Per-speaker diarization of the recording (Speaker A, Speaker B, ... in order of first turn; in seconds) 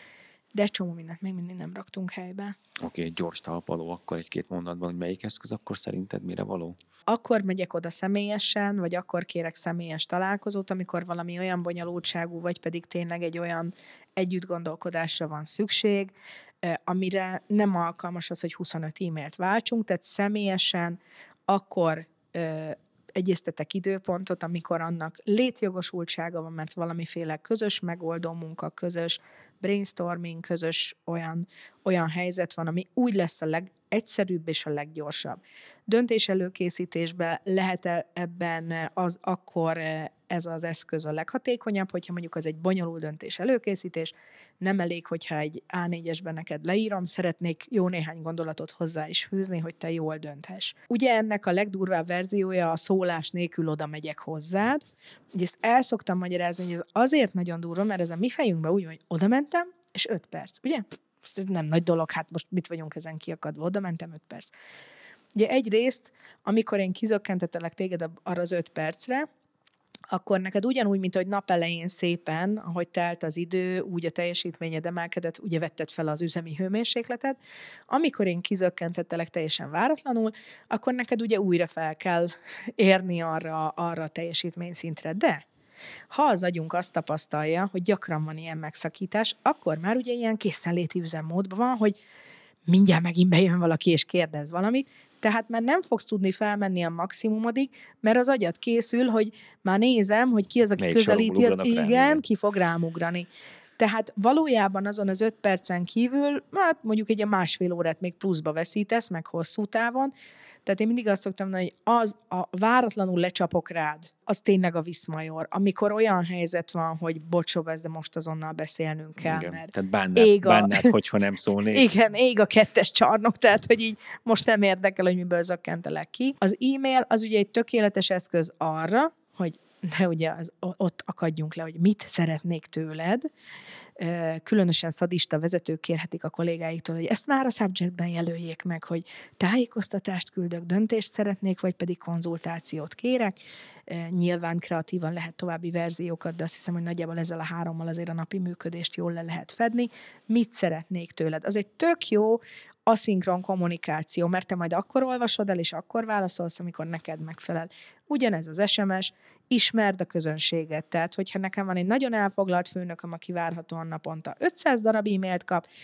Speaker A: 0.5-2.5, 7.1-64.5, 65.3-69.3, 70.1-77.4, 77.9-85.4, 86.1-92.0, 92.7-103.3, 103.8-110.1, 110.7-120.9, 121.7-133.3, 134.0-165.6
Speaker B: 2.8-6.8, 100.8-102.2, 119.2-121.9